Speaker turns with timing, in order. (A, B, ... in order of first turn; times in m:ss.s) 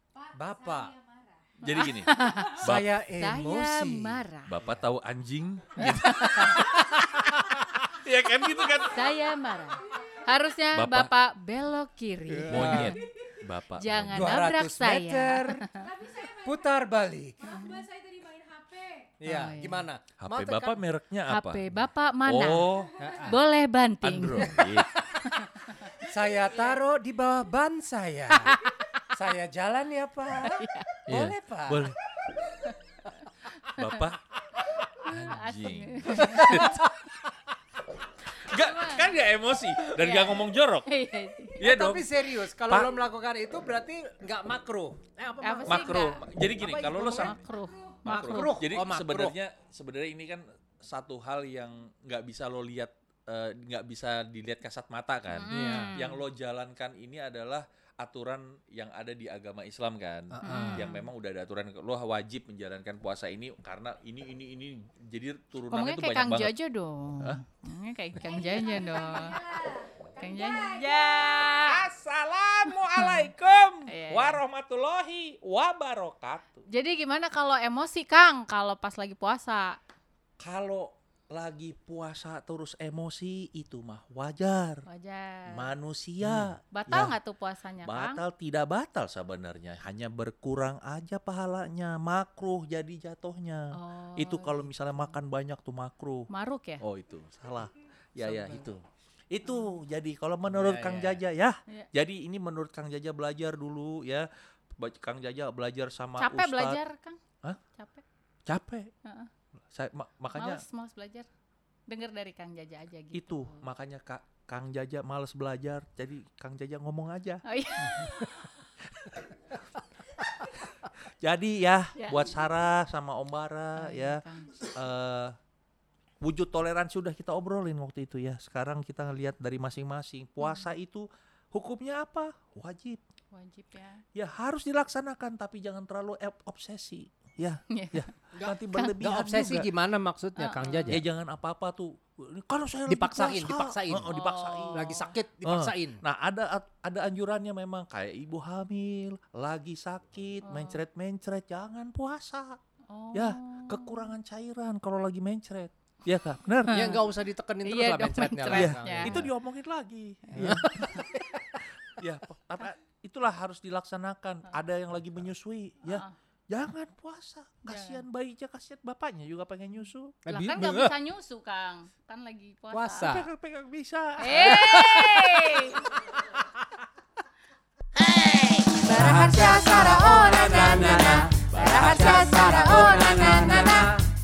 0:00.2-0:01.5 A
0:00.3-0:01.0 B
0:01.6-0:02.9 C
0:01.7-0:04.6 D
0:02.5-0:04.8 B
0:04.5-0:09.1 C
0:05.8-0:06.8 D
0:08.8-0:13.1 D
0:10.8-0:11.1 C
0:12.3-0:13.0 B
0:12.5-0:14.4 C
0:13.8-0:15.9 D
0:14.1-0:17.5 B
0:16.0-0:16.4 A
0:17.4-0:17.9 D
0:17.6-0:19.1 A
0:19.2-0:20.8 B
0:19.3-0:19.9 D
0:20.2-0:23.0 C
0:21.3-0:24.5 D
0:23.0-0:23.4 B
0:24.0-0:24.9 C
0:24.4-0:25.2 B
0:25.2-0:26.0 D
0:25.9-0:31.9 B
0:28.4-0:28.8 D
0:30.4-0:30.9 D
0:31.1-0:32.0 C
0:32.6-0:34.0 D
0:33.7-0:34.3 C
0:34.7-0:36.8 D
0:35.0-0:36.8 C
0:36.3-0:36.8 B
0:38.4-0:39.2 D
0:38.4-0:40.9 C
0:39.8-0:41.7 D
0:41.6-0:43.0 C
0:41.6-0:47.4 B
0:45.4-0:46.2 D
0:45.7-0:47.4 C
0:47.1-0:48.6 D
0:48.1-0:49.4 B
0:48.1-1:06.5 C
0:55.3-0:56.2 D
0:55.5-0:56.0 B
1:00.3-1:00.9 B
1:00.4-1:01.1 D
1:05.7-1:11.8 D
1:08.8-1:11.2 A
1:11.6-1:16.6 C
1:12.7-1:13.3 D
1:13.9-1:14.4 D
1:16.7-1:19.8 D
1:20.4-1:24.8 C
1:24.9-1:25.7 D
1:25.5-1:27.2 C
1:26.2-1:26.5 B
1:26.7-1:28.2 D
1:27.8-1:36.3 C
1:33.7-1:35.1 D
1:36.3-1:36.8 D
1:36.8-1:46.8 C
1:38.2-1:38.7 B
1:39.5-1:39.8 D
1:40.5-1:41.2 B
1:46.2-1:47.2 D
1:47.7-1:48.0 D
1:48.5-1:48.9 C
1:49.0-1:49.3 D
1:49.7-1:50.6 C
1:50.4-1:51.3 D
1:51.9-1:53.7 D
1:53.1-1:57.4 C
1:57.4-1:58.6 D
2:01.0-2:05.4 C
2:02.0-2:02.3 D
2:03.8-2:04.7 D
2:06.2-2:13.0 C
2:13.3-2:14.0 D
2:14.2-2:19.7 C
2:17.7-2:18.1 D
2:18.3-2:21.0 B
2:20.4-2:21.0 D
2:20.9-2:32.6 C
2:22.9-2:24.1 B
2:24.1-2:25.1 D
2:24.7-2:26.0 B
2:30.4-2:30.8 D
2:32.9-2:34.1 D
2:33.1-2:36.8 C
2:36.6-2:37.0 D
2:36.7-2:39.3 B
2:37.6-2:39.2 D
2:38.5-2:41.0 C
2:40.3-2:41.6 B
2:42.0-2:50.2 C
2:45.8-2:46.1 D
2:47.7-2:48.0 D
2:50.2-2:50.9 B
2:50.3-2:53.2 D
2:52.7-2:53.3 B
2:53.0-2:55.2 C
2:54.2-2:56.0 D
2:54.3-2:55.6 B
2:58.1-3:04.0 B
2:58.8-3:03.9 D
3:01.0-3:01.8 C